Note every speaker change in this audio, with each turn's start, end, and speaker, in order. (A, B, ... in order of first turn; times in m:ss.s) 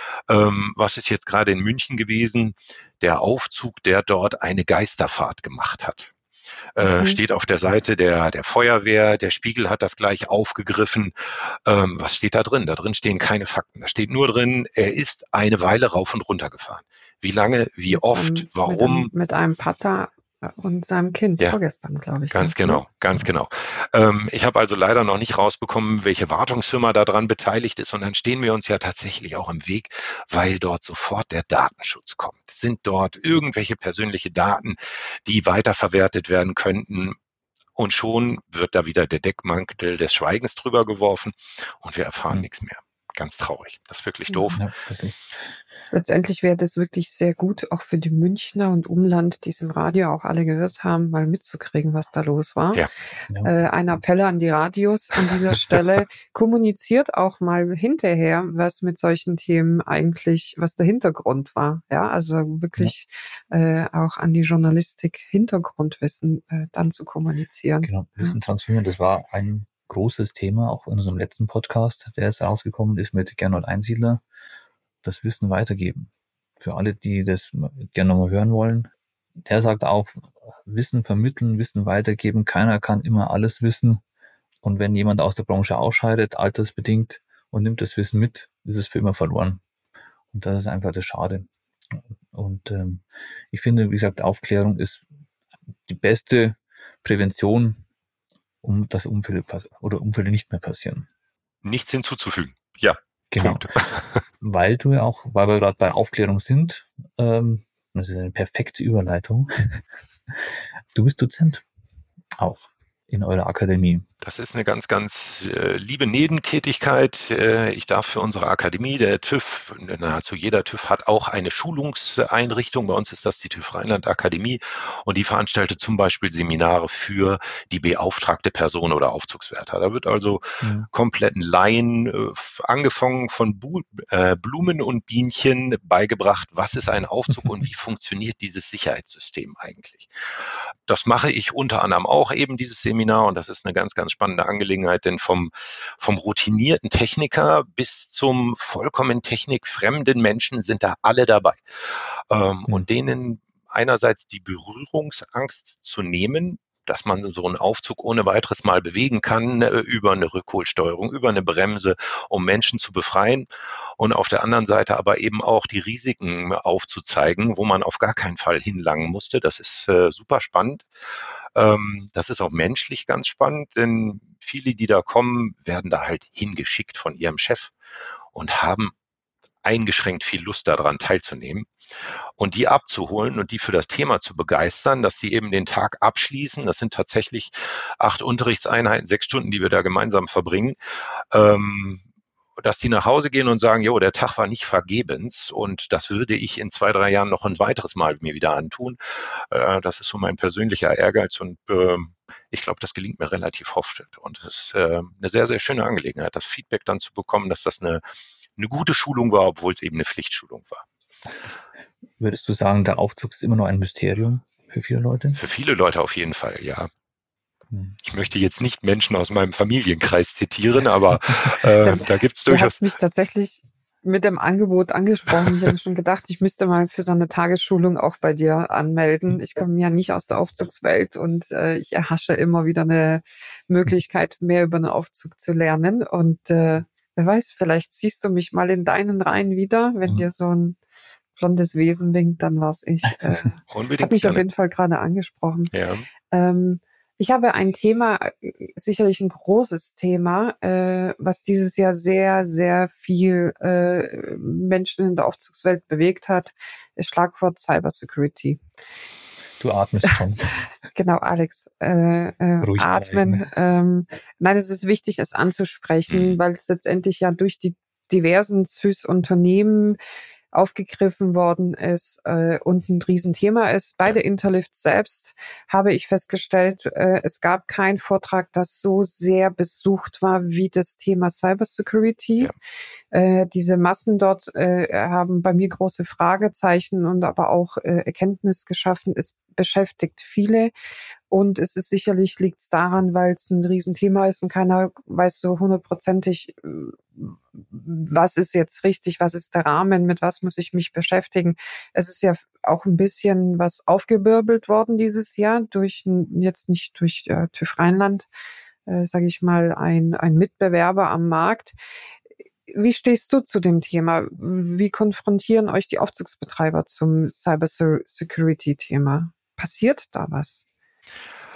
0:00.3-0:06.1 A
0:06.8-0:11.1 A
0:06.8-0:07.2 B
0:11.7-0:19.1 A
0:17.9-0:22.8 B
0:22.3-0:37.2 A
0:37.8-0:44.6 A
0:44.5-0:45.3 C
0:45.9-0:52.8 B
0:53.3-0:53.6 C
0:53.4-1:08.4 B
1:07.8-1:14.2 C
1:15.0-1:18.9 C
1:19.4-1:24.0 C
1:24.6-1:29.6 C
1:30.3-1:35.0 C
1:35.9-1:37.8 C
1:38.6-1:41.1 C
1:41.6-1:44.2 A
1:43.3-1:43.7 C
1:44.4-1:51.6 C
1:52.4-1:54.1 C
1:54.2-2:20.1 A
2:10.6-2:10.9 C
2:20.9-2:31.6 A
2:32.3-2:43.5 A
2:44.0-2:50.9 A
2:51.6-2:57.7 A
2:58.3-2:58.9 A
2:59.6-3:01.7 A
3:02.4-3:10.8 A
3:11.3-3:12.0 A
3:12.6-3:19.0 A
3:19.5-3:28.0 A
3:28.6-3:30.8 A
3:32.2-3:35.4 C
3:35.4-3:36.9 A
3:37.7-3:38.0 C
3:38.0-3:42.8 A
3:41.8-4:00.8 B
4:01.4-4:05.7 B
4:03.7-4:04.4 A
4:05.7-4:06.1 A
4:06.3-4:18.6 B
4:19.6-4:20.5 C
4:20.9-4:30.0 B
4:22.6-4:23.5 C
4:26.1-4:26.4 A
4:30.5-4:42.5 B
4:43.1-4:50.7 B
4:51.3-5:08.3 B
5:08.9-5:11.8 B
5:12.7-5:20.6 B